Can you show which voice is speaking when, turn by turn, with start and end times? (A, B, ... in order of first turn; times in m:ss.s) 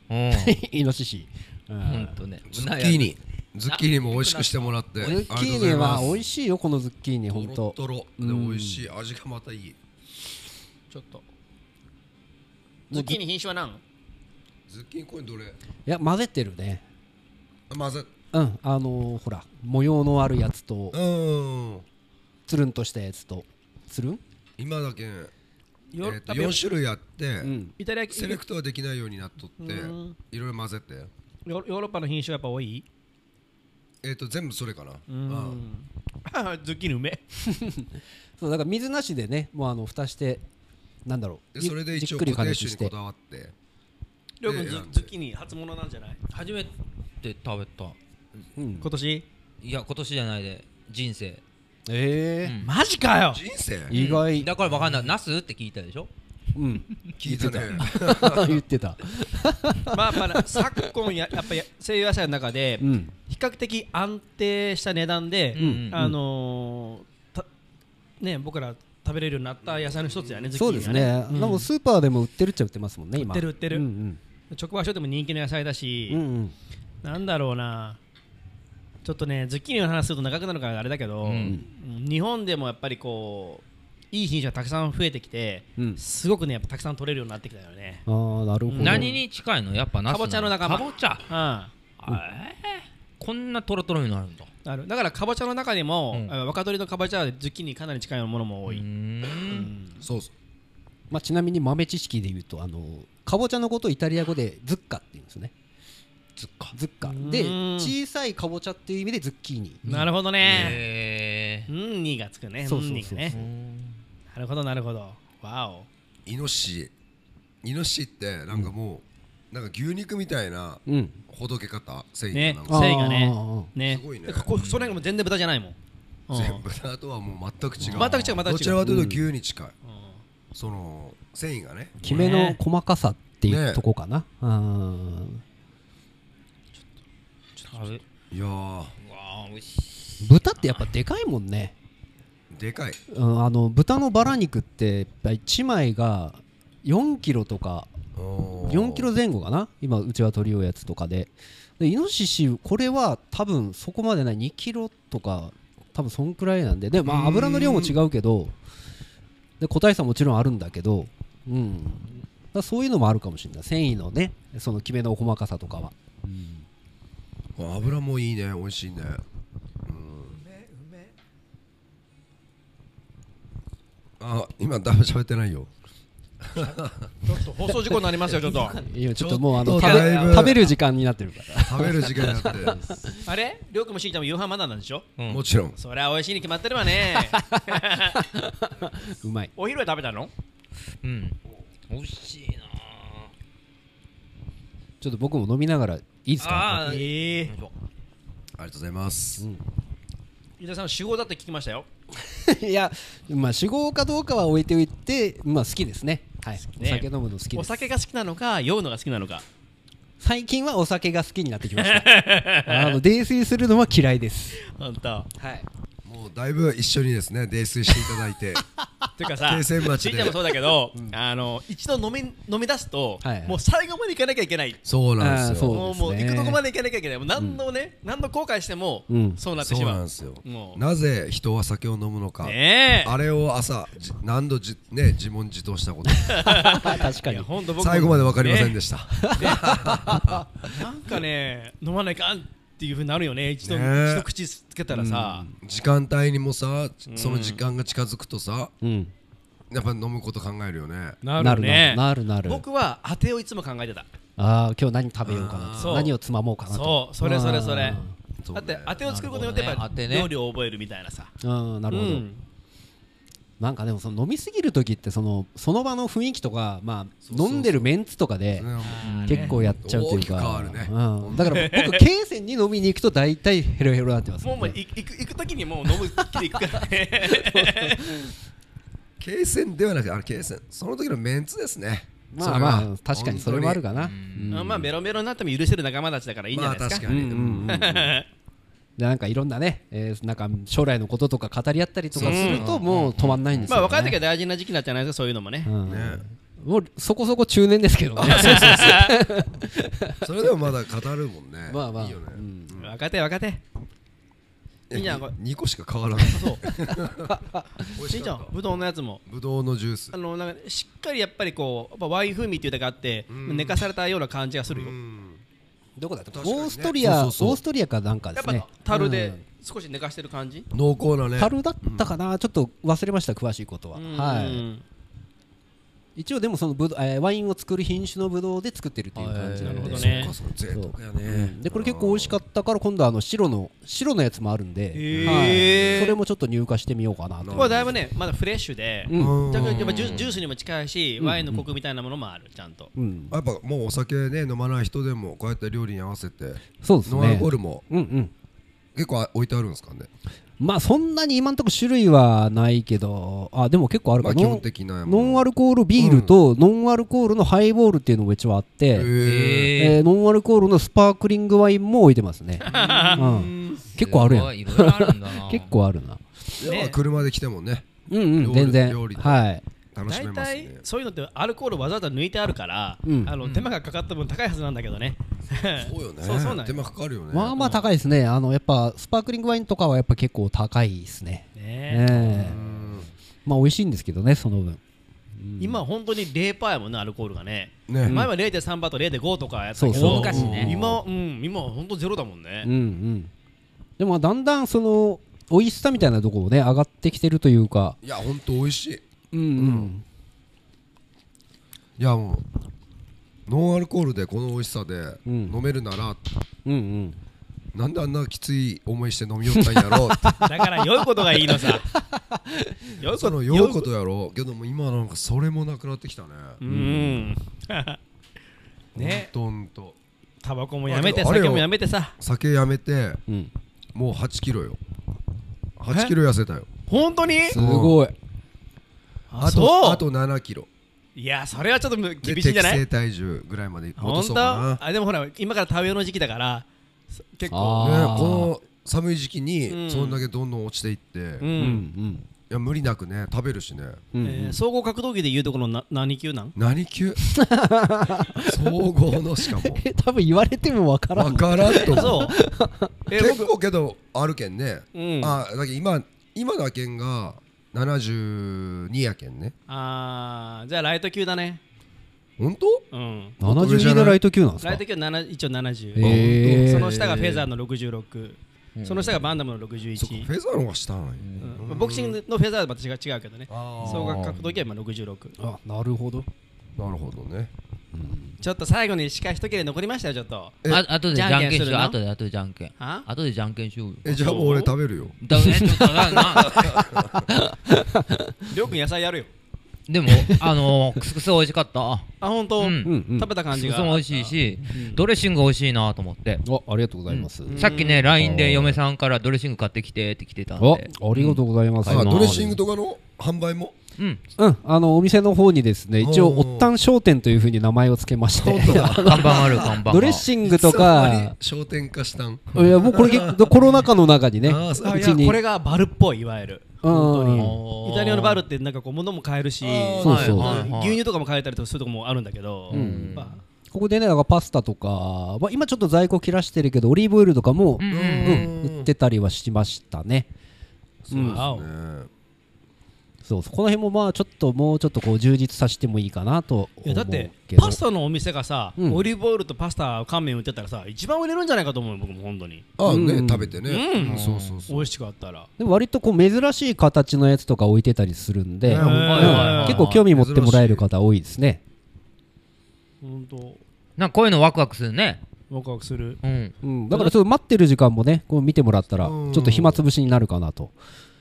0:00.1-0:00.6 A
0:00.3-0:02.2 B
0:01.8-0:03.1 A
0:02.5-0:06.2 C
0:03.7-0:04.7 D
0:05.0-0:08.9 B
0:07.3-0:09.8 C
0:10.9-0:11.2 D
0:12.9-0:13.8 D
0:12.9-0:13.2 B
0:14.7-0:15.6 C
0:15.9-0:16.8 B
0:17.7-0:18.1 C
0:18.3-0:21.0 B
0:20.9-0:21.8 C
0:22.5-0:24.2 B
0:24.6-0:25.3 C
0:25.9-0:26.6 D
0:26.0-0:27.6 C
0:27.4-0:27.7 B
0:27.8-0:28.4 D
0:28.1-0:31.1 C
0:29.6-0:30.2 D
0:31.5-0:32.8 D
0:34.0-0:35.6 C
0:35.1-0:37.2 D
0:37.4-0:40.4 B
0:41.0-0:42.9 B
0:41.5-0:43.5 C
0:44.4-0:46.2 D
0:44.4-0:45.1 C
0:46.3-0:48.0 A
0:48.6-0:48.9 B
0:48.8-0:49.2 D
0:49.6-0:51.4 A
0:51.9-0:52.6 B
0:52.4-0:52.7 A
0:52.6-0:53.4 D
0:53.3-0:53.9 C
0:53.9-0:54.5 B
0:53.9-0:56.1 A
0:56.6-1:00.8 B
0:57.2-0:58.6 C
0:59.9-1:07.5 D
1:02.8-1:03.1 B
1:05.5-1:06.0 A
1:05.6-1:06.2 B
1:08.2-1:11.7 D
1:09.8-1:10.9 C
1:10.6-1:14.2 B
1:13.2-1:13.9 D
1:14.5-1:16.2 D
1:16.1-1:16.6 B
1:17.0-1:18.0 D
1:19.0-1:28.0 D
1:21.2-1:21.6 A
1:21.4-1:21.7 B
1:28.1-1:29.2 B
1:28.7-1:29.2 D
1:28.8-1:31.3 A
1:30.1-1:31.7 D
1:32.0-1:34.5 A
1:34.6-1:38.8 D
1:38.7-1:39.7 A
1:39.5-1:40.0 D
1:40.0-1:40.3 C
1:41.1-1:45.5 B
1:46.4-1:46.7 A
1:46.7-1:49.8 B
1:47.0-1:47.9 D
1:49.8-1:51.7 A
1:49.9-1:50.8 D
1:51.7-1:53.4 D
1:52.6-1:53.4 B
1:53.3-1:54.0 A
1:54.3-1:55.9 D
1:56.3-1:56.9 C
1:57.6-2:03.0 C
2:00.9-2:01.2 B
2:02.3-2:05.8 D
2:02.7-2:03.7 B
2:03.8-2:04.5 C
2:04.5-2:05.0 A
2:06.3-2:06.6 D
2:06.3-2:09.8 C
2:07.8-2:08.2 B
2:07.9-2:08.9 D
2:08.8-2:09.3 B
2:09.8-2:10.2 D
2:10.5-2:12.2 C
2:12.0-2:15.4 B
2:12.1-2:12.6 D
2:13.4-2:13.8 C
2:17.6-2:18.0 D
2:17.7-2:18.0 A
2:18.3-2:19.0 C
2:19.0-2:20.8 A
2:20.2-2:21.7 B
2:22.5-2:23.0 C
2:23.1-2:27.9 B
2:28.2-2:29.1 C
2:28.6-2:38.5 B
2:37.0-2:38.0 C
2:39.6-2:46.7 B
2:47.6-2:49.2 C
2:49.9-2:50.4 C
2:50.4-2:51.1 D
2:54.2-2:55.7 C
2:56.4-2:57.1 C
2:57.2-2:58.8 D
2:58.1-3:03.2 B
2:59.2-3:00.7 C
2:59.7-3:00.6 D
3:01.6-3:02.8 C
3:03.2-3:05.1 D
3:05.2-3:05.4 A
3:05.3-3:05.8 C
3:05.8-3:08.2 D
3:07.1-3:09.5 B
3:09.6-3:10.3 D
3:11.0-3:13.3 A
3:15.0-3:17.0 B
3:16.4-3:17.7 A
3:16.8-3:17.5 D
3:18.6-3:19.4 C
3:19.4-3:19.6 B
3:20.6-3:21.9 D
3:22.1-3:27.9 B
3:26.6-3:29.4 D
3:30.2-3:34.6 B
3:31.8-3:33.0 D
3:34.6-3:35.3 D
3:35.4-3:35.7 B
3:36.0-3:38.6 C
3:39.2-3:44.8 D
3:39.4-3:40.6 C
3:43.2-3:43.6 B
3:44.8-3:45.8 C
3:45.2-3:46.6 B
3:45.7-3:50.8 D
3:49.1-3:49.4 B
3:49.6-3:56.6 C
3:52.4-3:53.2 D
3:56.2-3:57.5 B
3:56.3-3:59.9 D
3:57.8-4:00.5 C
3:59.2-4:00.7 B
4:00.6-4:05.5 D
4:03.6-4:04.3 C
4:04.9-4:05.6 B
4:05.6-4:08.7 C
4:07.1-4:07.6 D
4:08.8-4:09.1 B
4:09.7-4:11.2 C
4:11.2-4:14.1 D
4:11.4-4:12.6 B
4:14.4-4:18.2 B
4:15.2-4:16.1 C
4:15.8-4:16.1 D
4:16.7-4:18.0 D
4:18.4-4:19.0 C
4:18.5-4:21.3 D
4:19.0-4:20.3 A
4:21.4-4:22.2 B
4:21.9-4:22.4 D
4:23.6-4:28.7 B
4:27.2-4:27.9 C
4:28.6-4:29.2 C
4:28.8-4:29.6 A
4:28.9-4:29.6 D
4:29.2-4:34.8 B
4:29.8-4:31.6 C
4:31.4-4:32.0 D
4:34.4-4:38.3 D
4:36.3-4:38.3 B
4:39.2-4:43.8 C
4:42.3-4:44.9 B
4:43.9-4:44.6 A
4:44.5-4:47.1 D
4:46.5-4:48.0 C
4:47.1-4:48.1 B
4:47.6-4:48.3 D
4:49.0-4:54.2 B
4:52.2-4:52.6 C
4:52.2-4:52.7 D
4:52.6-4:53.7 A
4:53.7-4:55.7 D
4:55.6-5:00.5 B
4:55.8-4:56.2 C
4:58.2-4:59.2 D
4:58.3-4:59.0 C
5:00.2-5:02.9 C
5:01.7-5:02.7 B
5:02.8-5:03.6 D
5:04.9-5:08.6 C
5:04.9-5:05.4 D
5:06.3-5:06.6 D
5:07.2-5:07.9 B
5:08.0-5:09.2 D
5:09.3-5:10.2 C
5:10.1-5:14.9 D
5:13.3-5:13.8 C
5:14.7-5:15.4 C
5:16.0-5:19.4 B
5:16.3-5:17.6 C
5:18.4-5:20.7 D
5:20.7-5:22.1 C
5:21.4-5:24.6 B
5:24.0-5:24.8 D
5:26.2-5:37.9 B
5:29.2-5:30.0 A
5:29.6-5:30.3 D
5:29.8-5:32.4 C
5:34.9-5:36.2 D
5:35.1-5:36.1 C
5:37.4-5:38.0 C
5:37.6-5:42.9 D
5:39.1-5:39.4 B
5:39.1-5:40.2 C
5:39.5-5:40.4 A
5:41.2-5:41.7 B
5:43.0-5:43.4 B
5:43.3-5:47.8 C
5:46.8-5:48.3 B
5:49.0-5:50.1 C
5:50.6-5:59.1 B
5:54.2-5:56.4 C
5:58.9-5:59.7 C
5:59.2-6:00.0 A
5:59.7-6:06.2 B
6:02.6-6:03.3 D
6:02.6-6:03.9 C
6:04.0-6:05.7 A
6:06.6-6:07.9 C
6:06.6-6:07.0 D
6:08.1-6:09.6 B
6:08.4-6:09.4 C
6:09.9-6:10.8 C
6:10.1-6:16.9 D
6:13.0-6:13.4 B
6:13.4-6:13.7 A
6:15.8-6:17.6 C
6:17.3-6:22.6 B
6:17.5-6:17.9 D
6:21.6-6:22.6 D
6:22.3-6:23.1 C
6:23.4-6:24.8 B
6:25.4-6:25.8 B
6:25.6-6:32.7 D
6:27.9-6:28.2 C
6:28.0-6:28.3 B
6:29.8-6:30.8 B
6:29.9-6:30.7 A
6:30.0-6:31.0 C
6:32.6-6:33.3 B
6:34.0-6:38.0 B
6:38.0-6:39.0 C
6:39.3-6:40.0 B
6:39.6-6:39.9 C
6:42.0-6:42.4 C
6:43.5-6:46.2 C
6:45.3-6:45.6 B
6:46.6-6:47.2 B
6:47.7-6:50.5 C
6:49.5-6:52.9 B
6:50.4-6:51.9 D
6:53.0-6:53.9 D
6:53.1-6:56.6 C
6:56.6-6:58.0 D
6:56.7-6:57.3 B
6:59.0-6:59.3 D
6:59.0-7:00.0 C
7:00.4-7:02.2 D
7:00.9-7:03.2 C
7:04.0-7:04.8 C
7:05.8-7:06.7 C
7:05.9-7:06.2 D
7:06.9-7:07.6 D
7:07.5-7:08.2 B
7:07.5-7:08.0 C
7:09.3-7:10.0 D
7:09.4-7:10.7 C
7:11.2-7:12.8 D
7:12.2-7:14.8 C
7:14.0-7:18.2 D
7:17.5-7:18.5 B
7:17.8-7:21.5 C
7:19.7-7:20.2 D
7:21.4-7:21.9 D
7:21.6-7:22.3 B
7:22.5-7:24.1 C
7:24.1-7:24.6 B
7:24.2-7:26.6 D
7:26.6-7:27.2 C
7:27.2-7:33.1 B
7:28.5-7:29.8 C
7:31.2-7:32.2 C
7:31.8-7:32.4 D
7:33.1-7:33.5 D
7:33.1-7:39.6 C
7:34.9-7:35.4 D
7:39.7-7:41.6 D
7:42.4-7:42.8 C
7:42.9-7:43.4 D
7:43.4-7:44.8 B
7:43.4-7:44.2 C
7:44.6-7:50.3 D
7:46.0-7:46.9 B
7:46.0-7:47.4 C
7:48.8-7:49.3 A
7:50.0-7:52.2 C
7:51.2-7:51.6 A
7:51.4-7:55.4 D
7:53.5-7:54.3 C
7:53.8-7:54.6 A
7:55.4-7:56.3 B
7:56.8-7:57.5 C
7:57.9-7:58.4 B
7:58.4-8:00.6 D
8:00.7-8:04.2 A
8:01.1-8:02.0 D
8:02.8-8:03.1 D
8:04.0-8:05.2 C
8:04.1-8:04.7 D
8:05.2-8:06.9 A
8:05.4-8:06.6 B
8:06.1-8:07.3 C
8:07.3-8:08.5 B
8:08.5-8:09.3 D
8:09.9-8:12.9 A
8:10.1-8:10.7 B
8:12.2-8:15.0 D
8:12.8-8:13.3 B
8:13.5-8:16.4 A
8:16.4-8:18.8 B
8:17.1-8:22.6 A
8:17.5-8:18.1 D
8:20.6-8:22.6 B
8:21.9-8:23.8 C
8:24.4-8:31.4 B
8:26.0-8:26.7 C
8:28.4-8:29.8 C
8:28.7-8:30.3 A
8:30.4-8:33.6 C
8:32.5-8:35.4 B
8:34.4-8:35.2 C
8:34.8-8:43.4 D
8:36.8-8:37.6 B
8:37.3-8:38.4 A
8:39.6-8:40.7 C
8:40.0-8:40.6 B
8:40.0-8:41.0 A
8:42.7-8:43.3 A
8:42.7-8:50.3 B
8:47.8-8:48.5 A
8:47.9-8:48.9 C
8:51.0-8:52.1 C
8:51.1-8:51.4 B
8:51.1-8:51.7 D
8:53.2-8:57.8 B
8:56.8-9:02.7 D
8:58.8-8:59.1 B
9:02.8-9:04.9 C
9:02.8-9:03.6 B
9:03.7-9:05.5 D
9:04.0-9:04.6 A
9:05.6-9:11.6 B
9:08.6-9:10.9 C
9:08.7-9:09.8 D
9:08.8-9:10.0 A
9:13.0-9:13.6 D
9:14.0-9:15.2 A
9:15.5-9:16.2 D
9:16.2-9:16.5 A
9:16.6-9:20.7 B
9:19.0-9:19.8 C